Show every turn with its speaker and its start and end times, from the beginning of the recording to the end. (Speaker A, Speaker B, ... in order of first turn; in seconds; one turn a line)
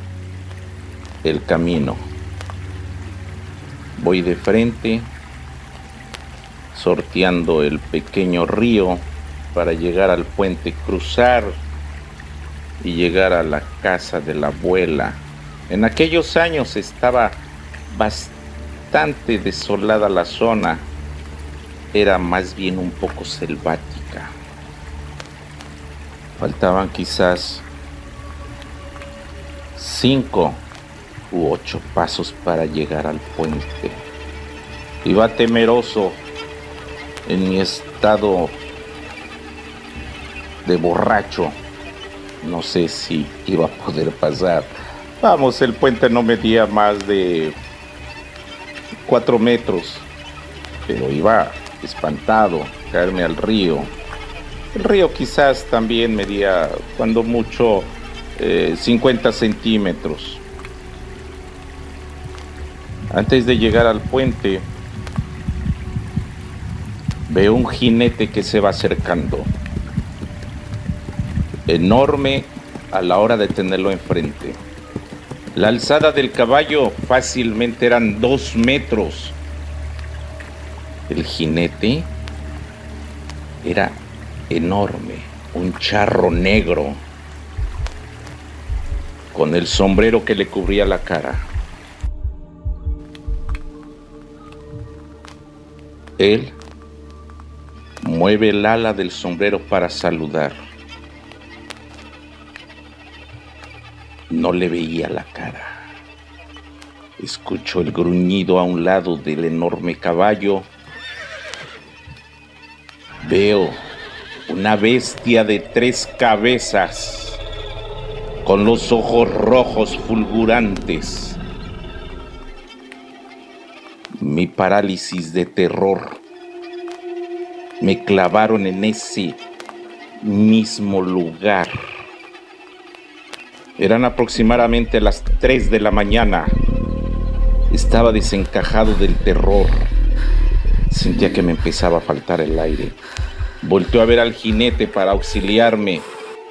Speaker A: 1.2-2.1
Speaker A: 4.0-5.1
Speaker A: 6.7-11.6
Speaker A: 12.8-18.4
Speaker A: 18.9-20.9
Speaker A: 21.9-24.4
Speaker A: 26.4-27.7
Speaker A: 29.8-30.7
Speaker A: 31.3-34.0
Speaker A: 35.0-36.2
Speaker A: 37.3-38.6
Speaker A: 40.6-41.6
Speaker A: 42.4-47.6
Speaker A: 49.1-50.1
Speaker A: 50.9-53.9
Speaker A: 54.7-60.4
Speaker A: 63.1-64.7
Speaker A: 67.3-69.5
Speaker A: 71.7-74.6
Speaker A: 75.5-79.4
Speaker A: 81.1-82.1
Speaker A: 83.6-87.0
Speaker A: 89.3-91.5
Speaker A: 96.2-96.6
Speaker A: 98.0-100.6
Speaker A: 104.3-105.8
Speaker A: 107.2-110.7
Speaker A: 113.2-113.8
Speaker A: 114.5-117.4
Speaker A: 118.4-121.4
Speaker A: 124.2-126.2
Speaker A: 127.8-129.4
Speaker A: 130.2-131.8
Speaker A: 133.8-136.6
Speaker A: 137.7-139.9
Speaker A: 140.9-143.0
Speaker A: 143.6-146.1